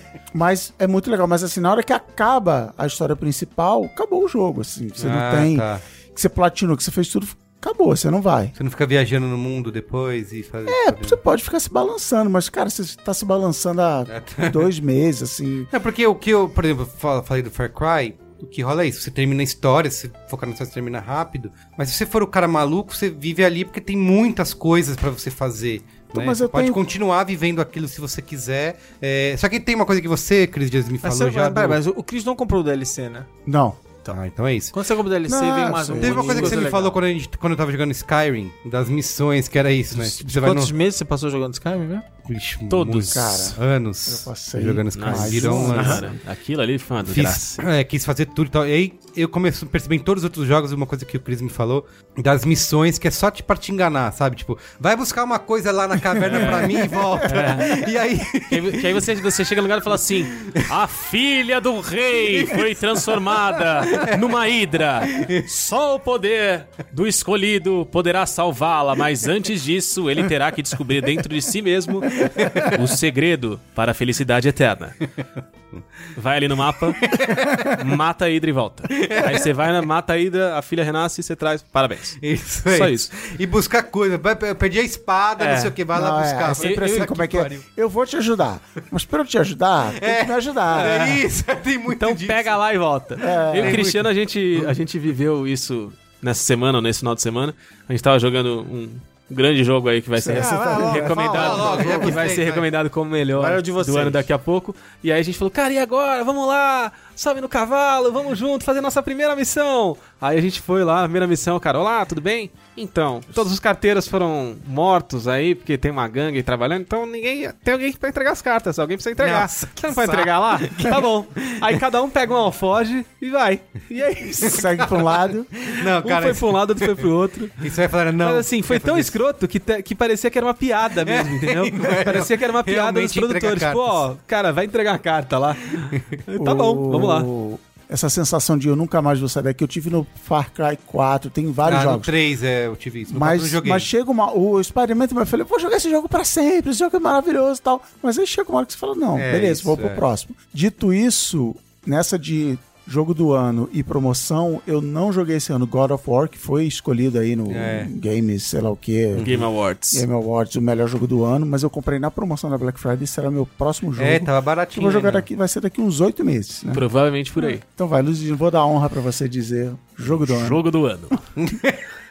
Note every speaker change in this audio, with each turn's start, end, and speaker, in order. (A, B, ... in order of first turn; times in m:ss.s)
0:00.3-0:08.6 A
0:05.0-0:05.8 B
0:08.6-0:11.2 B
0:10.7-0:15.7 A
0:14.1-0:14.7 B
0:15.7-0:31.8 B
0:26.1-0:26.8 A
0:31.0-0:33.3 C
0:33.5-0:33.8 A
0:34.1-0:34.8 B
0:34.7-0:37.0 C
0:35.3-0:36.7 A
0:35.9-0:40.7 B
0:39.9-0:42.1 C
0:42.3-0:46.1 B
0:42.7-0:43.6 D
0:43.1-0:46.1 A
0:44.9-0:47.6 D
0:45.8-0:46.0 C
0:47.0-0:59.2 B
0:56.2-0:57.9 D
0:58.5-1:15.0 D
1:00.3-1:00.7 B
1:02.2-1:04.3 B
1:05.1-1:05.4 B
1:12.2-1:12.9 B
1:16.2-1:23.1 D
1:17.0-1:17.8 B
1:18.9-1:19.5 B
1:22.2-1:27.6 B
1:25.4-1:25.8 D
1:25.9-1:31.2 A
1:26.6-1:27.1 D
1:29.9-1:32.6 B
1:30.8-1:31.2 D
1:32.0-2:04.6 D
1:33.2-1:33.9 A
1:33.5-1:34.7 B
1:40.2-1:41.9 A
1:40.4-1:42.3 C
1:41.2-1:42.7 B
1:43.3-1:44.3 C
1:59.2-2:01.6 B
2:04.4-2:05.5 A
2:04.5-2:07.1 B
2:05.8-2:17.3 D
2:07.6-2:09.2 B
2:11.0-2:14.0 B
2:16.4-2:22.1 A
2:21.6-2:23.9 B
2:23.1-2:46.9 A
2:29.2-2:30.0 B
2:37.5-2:37.9 B
2:39.2-2:39.4 B
2:39.2-2:40.0 D
2:44.0-2:45.3 B
2:46.7-2:47.6 D
2:47.4-2:50.6 A
2:50.1-2:51.3 D
2:51.4-2:51.8 B